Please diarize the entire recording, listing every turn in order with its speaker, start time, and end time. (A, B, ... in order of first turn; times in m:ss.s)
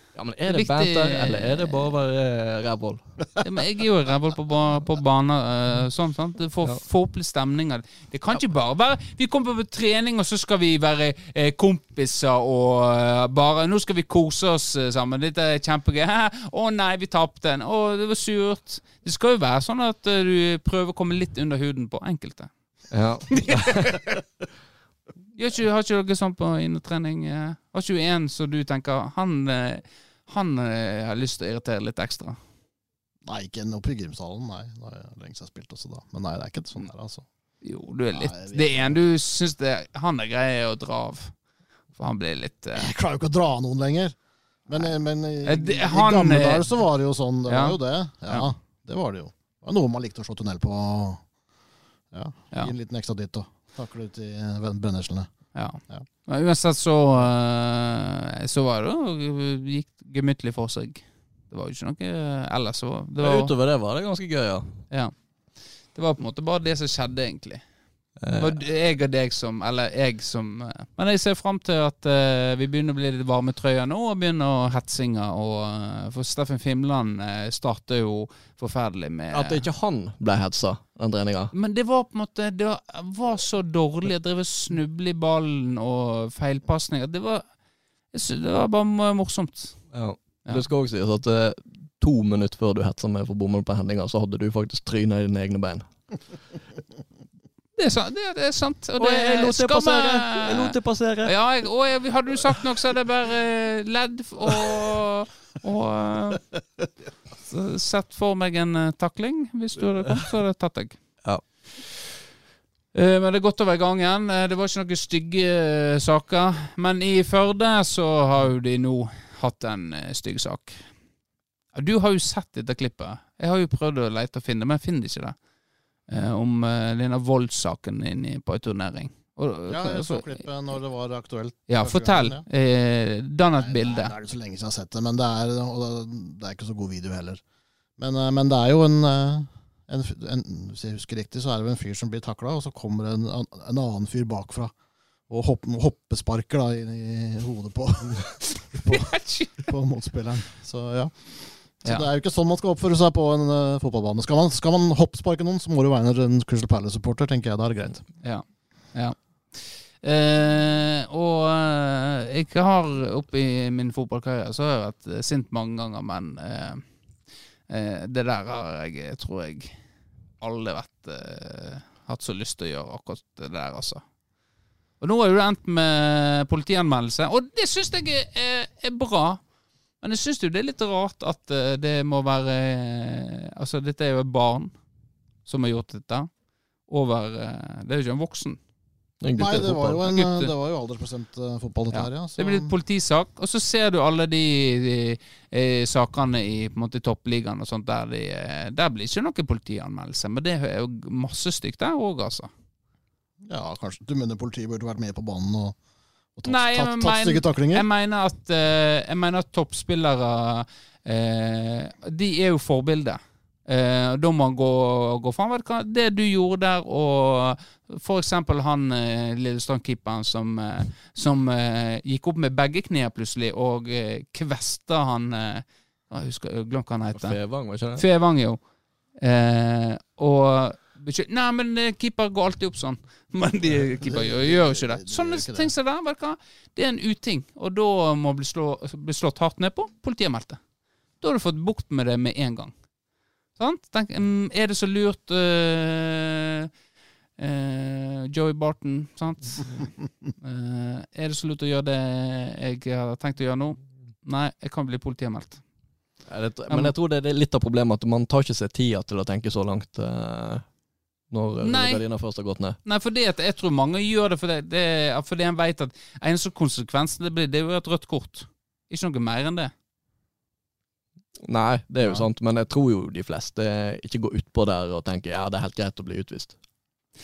0:00.1-0:03.0 A
0:00.5-0:01.9 B
0:03.4-0:22.5 B
0:22.9-0:24.0 A
0:23.3-0:24.1 B
0:25.4-0:32.4 B
0:33.2-0:37.3 C
0:37.6-0:41.3 B
0:38.1-0:39.0 C
0:41.9-0:42.9 B
0:42.8-0:44.2 C
0:44.7-0:51.2 C
0:45.4-0:46.6 B
0:47.5-0:47.8 B
0:52.1-0:55.3 C
0:55.5-1:03.5 B
1:03.2-1:04.8 A
1:05.9-1:07.6 B
1:08.2-1:08.5 A
1:08.3-1:19.7 B
1:19.3-1:21.5 A
1:21.5-1:27.4 B
1:28.1-1:29.8 B
1:29.9-1:35.9 A
1:37.8-1:46.5 B
1:39.0-1:41.3 A
1:47.4-1:51.0 B
1:52.9-2:00.8 B
2:01.7-2:05.4 B
2:06.1-2:10.4 B
2:09.7-2:12.4 C
2:11.7-2:14.1 B
2:13.6-2:17.4 C
2:18.0-2:24.7 C
2:25.3-2:38.0 C
2:28.7-2:29.5 B
2:38.2-2:46.8 B
2:47.7-2:49.8 B
2:50.4-2:54.0 B
2:55.0-2:59.4 B
3:00.0-3:04.7 B
3:05.4-3:06.3 B
3:06.9-3:08.6 B
3:09.2-3:10.0 A
3:09.4-3:12.7 C
3:10.0-3:10.5 B
3:11.9-3:22.5 B
3:23.4-3:25.8 C
3:26.4-3:27.9 C
3:26.4-3:47.4 B
3:47.1-3:48.0 A
3:48.0-3:48.6 B
3:49.2-4:00.6 B
3:53.8-3:55.7 C
4:01.2-4:02.7 B
4:03.6-4:06.7 B
4:07.4-4:15.6 B
4:16.3-4:20.6 A
4:21.3-4:22.8 A
4:21.6-4:22.0 B
4:22.8-4:29.7 B
4:31.4-4:36.6 A